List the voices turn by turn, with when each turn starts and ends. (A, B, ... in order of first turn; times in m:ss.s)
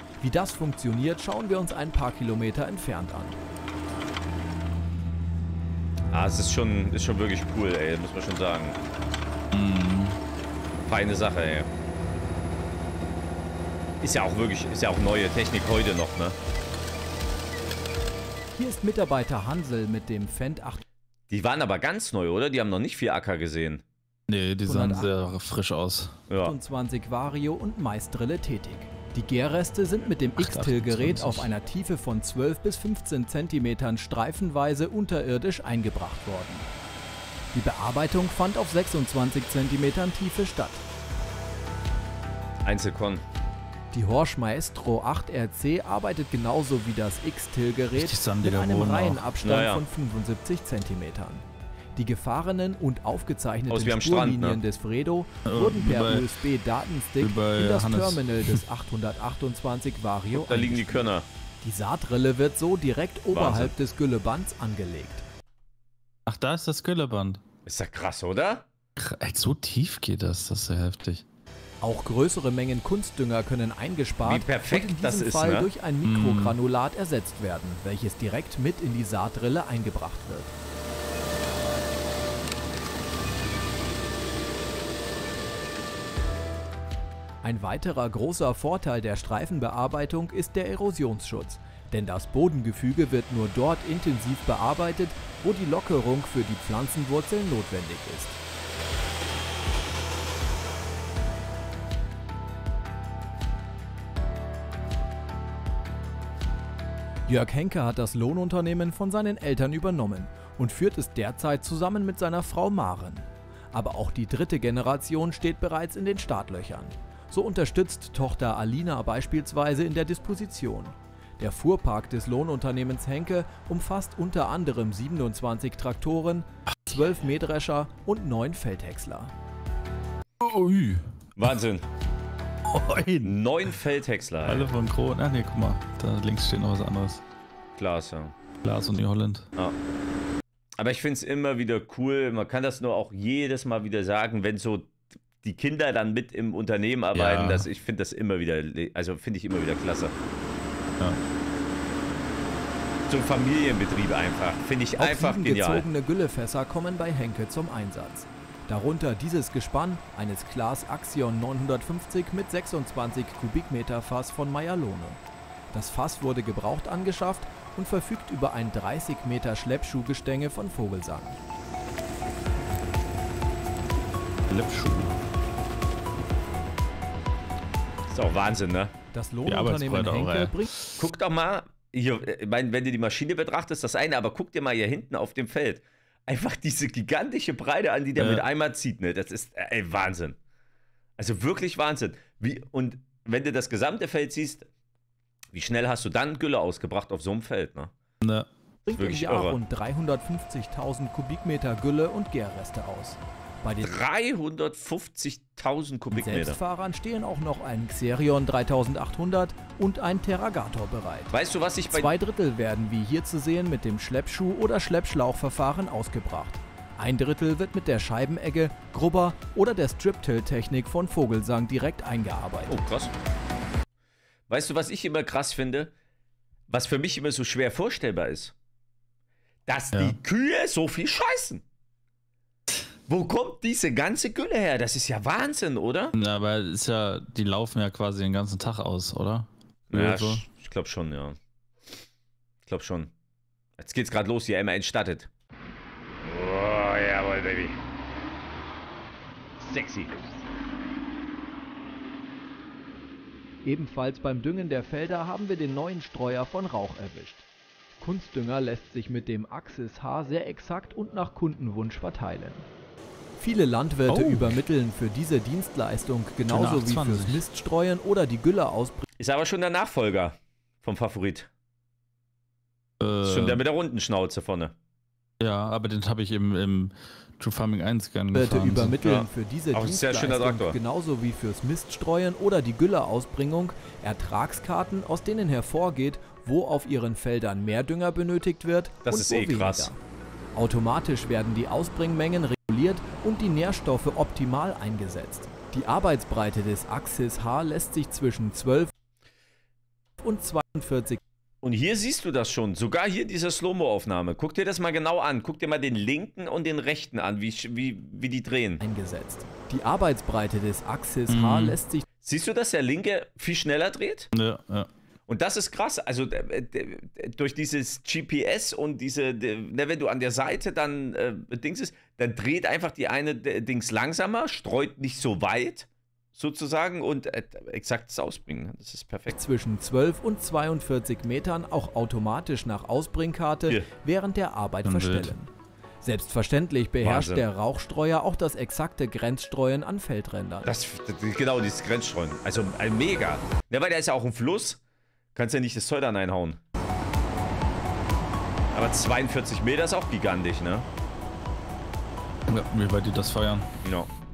0:00.2-0:03.4 A
0:06.1-0:08.8 B
0:09.5-0:10.2 C
0:10.8-0:11.7 B
0:14.0-0:16.4 B
0:18.6-0:20.8 A
0:21.3-0:23.8 B
0:24.3-0:26.2 C
0:24.6-0:25.1 A
0:26.3-0:26.6 B
0:26.4-0:36.7 A
0:30.4-0:31.5 C
0:37.5-0:40.8 A
0:42.6-0:43.2 B
0:43.9-0:51.4 A
0:47.9-0:49.2 C
0:49.4-0:49.8 B
0:52.0-1:01.1 A
0:53.7-0:54.6 B
0:55.4-0:56.2 C
0:57.2-0:58.6 C
1:00.3-1:01.3 B
1:01.6-1:05.3 A
1:03.3-1:03.7 B
1:06.3-1:07.4 C
1:07.7-1:08.6 B
1:09.0-1:11.2 C
1:11.8-1:20.5 A
1:14.2-1:15.7 B
1:16.0-1:16.6 C
1:27.4-1:38.4 A
1:47.3-2:09.3 A
2:10.4-2:11.1 C
2:11.4-2:11.9 B
2:12.7-2:13.4 C
2:13.2-2:14.7 B
2:14.5-2:17.2 C
2:17.8-2:18.3 B
2:18.6-2:19.5 C
2:20.8-2:30.1 B
2:27.2-2:27.7 C
2:33.1-2:35.8 B
2:35.0-2:45.2 A
2:45.7-2:51.4 A
2:54.5-2:55.2 C
2:58.1-2:58.9 B
2:59.1-3:00.7 A
2:59.5-3:01.0 C
3:01.0-3:10.4 B
3:08.2-3:08.4 C
3:11.2-3:14.7 B
3:15.5-3:17.9 B
3:18.2-3:18.5 C
3:18.9-3:23.9 A
3:18.9-3:19.6 B
3:23.8-3:26.6 B
3:26.1-3:31.3 A
3:31.3-3:32.1 B
3:31.9-3:42.8 A
3:42.7-3:43.1 B
3:44.5-3:45.9 B
3:46.7-3:48.5 B
3:49.7-3:51.6 B
3:53.1-3:56.2 B
3:56.2-4:00.4 C
3:59.9-4:01.4 B
4:02.6-4:03.1 B
4:03.8-4:05.3 B
4:06.2-4:07.8 B
4:09.6-4:10.1 B
4:13.6-4:17.4 A
4:18.0-4:22.7 A
4:23.4-4:29.0 A
4:24.1-4:24.6 C
4:26.5-4:27.4 C
4:29.2-4:31.5 B
4:33.0-4:33.6 C
4:33.2-4:34.7 B
4:35.4-4:39.0 C
4:38.3-4:50.0 A
4:39.0-4:40.8 B
4:49.0-4:49.9 B
4:50.6-4:58.9 A
5:00.2-5:01.2 A
5:01.6-5:08.8 B
5:08.8-5:12.1 A
5:11.3-5:11.8 C
5:12.2-5:14.3 B
5:14.3-5:14.9 C
5:15.3-5:29.4 B
5:29.3-5:35.5 A
5:34.8-5:35.4 C
5:36.0-5:40.7 A
5:37.0-5:37.5 B
5:40.6-5:44.8 B
5:45.4-5:46.6 B
5:48.7-5:50.9 B
5:52.5-5:53.7 C
5:53.8-5:54.1 B